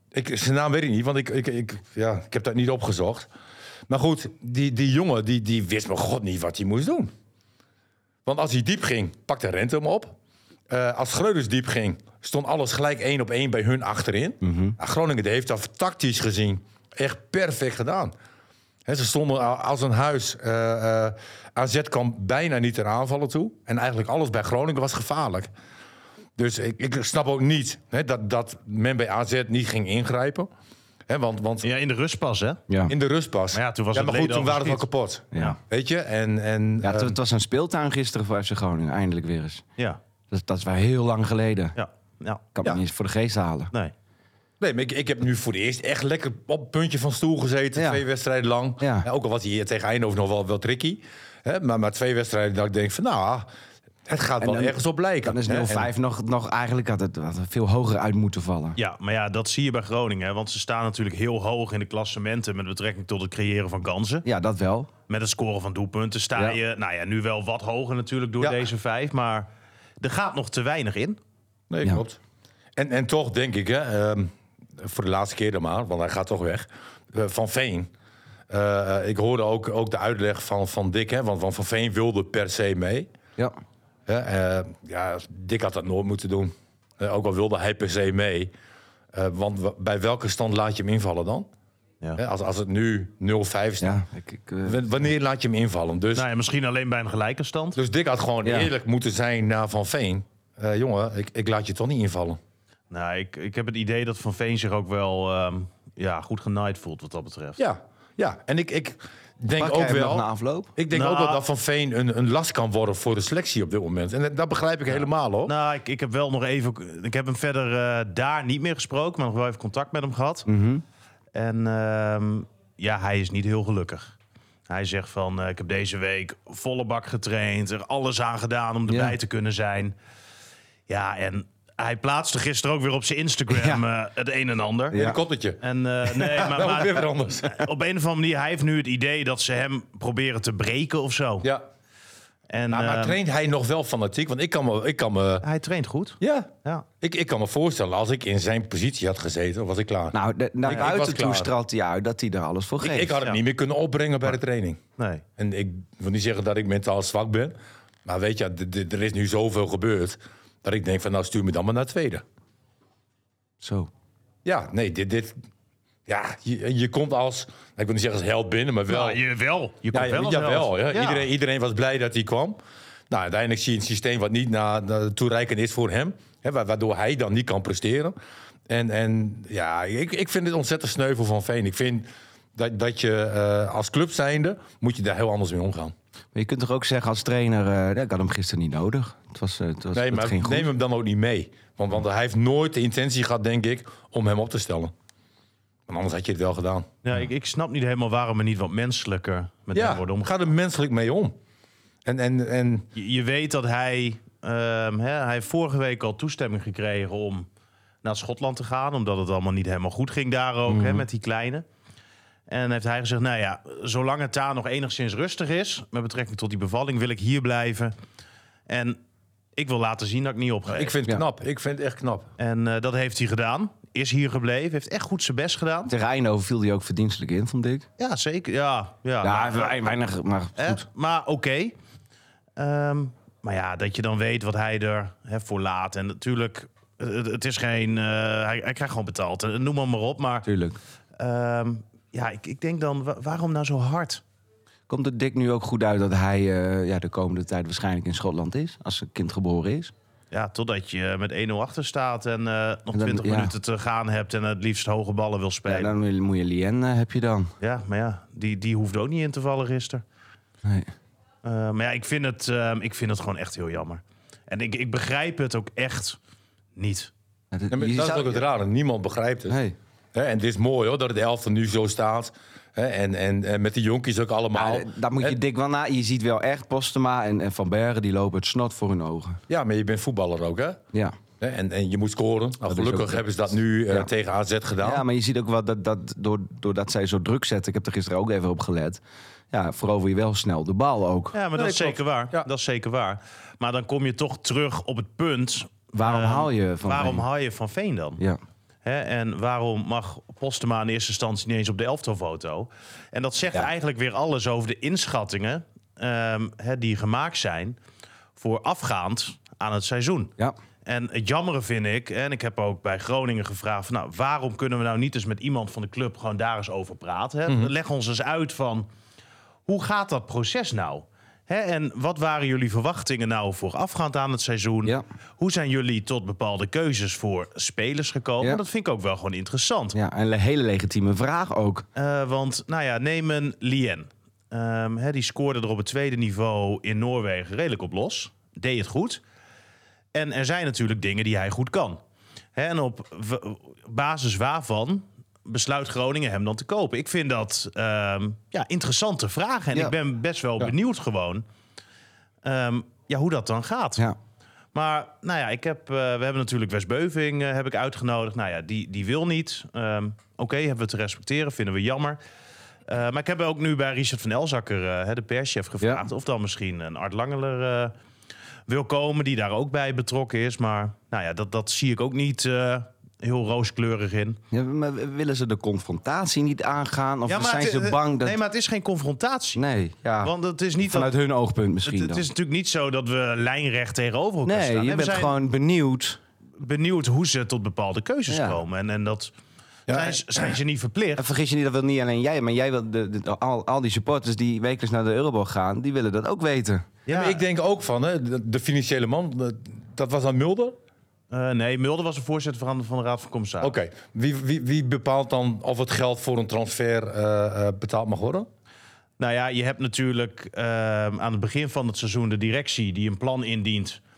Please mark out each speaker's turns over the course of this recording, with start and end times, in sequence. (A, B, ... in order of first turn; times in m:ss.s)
0:00.1-0:03.3 A
0:03.9-0:07.1 A
0:08.3-0:10.2 A
0:10.7-0:18.1 A
0:14.4-0:14.8 B
0:18.9-0:25.5 A
0:26.4-0:30.5 A
0:31.1-0:31.7 A
0:31.6-0:32.6 C
0:32.7-0:32.9 B
0:32.9-0:37.2 A
0:33.5-0:34.9 C
0:35.3-0:35.6 B
0:36.8-0:39.6 B
0:40.3-0:41.8 B
0:41.8-0:42.5 C
0:42.6-0:43.7 B
0:44.6-0:53.5 A
0:47.8-0:48.0 B
0:48.8-0:49.1 B
0:54.1-0:55.9 A
0:54.4-0:58.8 B
0:58.8-1:04.2 C
1:04.2-1:04.9 B
1:05.1-1:09.5 C
1:08.4-1:08.7 A
1:10.0-1:11.2 C
1:11.7-1:12.2 A
1:12.8-1:17.9 A
1:18.5-1:23.1 A
1:24.1-1:28.5 A
1:29.1-1:31.5 A
1:32.2-1:34.0 A
1:33.8-1:35.1 B
1:34.6-1:36.3 A
1:36.2-1:37.8 C
1:37.8-1:42.4 A
1:38.4-1:38.7 B
1:42.9-1:47.6 C
1:47.6-1:55.5 A
1:49.6-1:50.7 B
1:50.9-1:51.4 C
1:54.9-2:00.5 C
2:00.5-2:00.8 B
2:01.4-2:04.1 C
2:04.7-2:09.9 C
2:08.9-2:09.2 B
2:10.9-2:15.0 C
2:13.5-2:13.8 B
2:14.9-2:15.2 B
2:14.9-2:17.6 A
2:15.6-2:21.5 C
2:22.5-2:23.2 C
2:22.7-2:25.4 A
2:25.4-2:26.9 C
2:26.2-2:31.5 A
2:30.1-2:33.2 B
2:32.8-2:34.8 A
2:35.0-2:35.2 C
2:35.4-2:42.2 A
2:43.6-2:43.9 B
2:44.4-2:45.4 A
2:46.1-2:49.2 A
2:48.9-2:51.3 C
2:49.9-2:52.6 A
2:53.1-2:58.2 A
2:58.7-3:05.9 A
3:06.3-3:10.7 B
3:09.9-3:14.9 A
3:15.9-3:16.9 A
3:17.0-3:20.3 C
3:19.7-3:21.4 A
3:22.0-3:22.9 A
3:23.0-3:27.5 C
3:28.0-3:31.6 C
3:30.7-3:31.0 A
3:32.5-3:37.9 C
3:38.7-3:39.0 C
3:39.6-3:41.0 C
3:40.7-3:42.3 A
3:42.4-3:45.9 C
3:45.9-3:47.9 B
3:48.0-3:49.9 C
3:49.2-3:50.8 B
3:50.6-3:51.8 C
3:52.6-4:00.5 C
4:00.4-4:00.8 B
4:01.2-4:04.2 C
4:04.9-4:09.9 B
4:10.3-4:16.0 C
4:12.9-4:13.5 B
4:15.7-4:17.5 B
4:17.6-4:20.0 C
4:20.6-4:20.9 B
4:21.4-4:26.2 C
4:26.8-4:27.1 C
4:27.5-4:28.4 B
4:27.7-4:29.6 A
4:29.5-4:29.8 B
4:30.1-4:35.4 A
4:34.5-4:39.4 B
4:39.5-4:40.8 A
4:41.4-4:45.0 A
4:42.7-4:43.3 B
4:44.8-4:49.0 B
4:49.5-4:51.4 B
4:51.3-4:58.2 C
4:51.6-4:52.5 A
4:55.9-4:57.2 B
4:58.8-5:07.8 C
5:08.4-5:10.3 C
5:10.9-5:18.9 C
5:19.7-5:30.0 C
5:29.9-5:31.9 B
5:32.0-5:39.2 C
5:40.1-5:42.0 C
5:42.6-5:51.4 C
5:52.4-5:54.0 C
5:54.7-6:02.2 C
6:02.9-6:07.9 C
6:08.7-6:14.4 C
6:14.5-6:18.4 B
6:17.3-6:19.6 C
6:19.6-6:22.3 B
6:20.2-6:21.1 C
6:21.8-6:25.3 C
6:24.5-6:26.2 B
6:26.6-6:29.3 C
6:28.3-6:28.6 B
6:29.9-6:30.2 A
6:29.9-6:31.2 C
6:31.2-6:36.9 B
6:37.1-6:37.4 C
6:37.1-6:40.8 A
6:41.3-6:43.7 C
6:43.6-6:48.5 A
6:49.2-6:54.0 C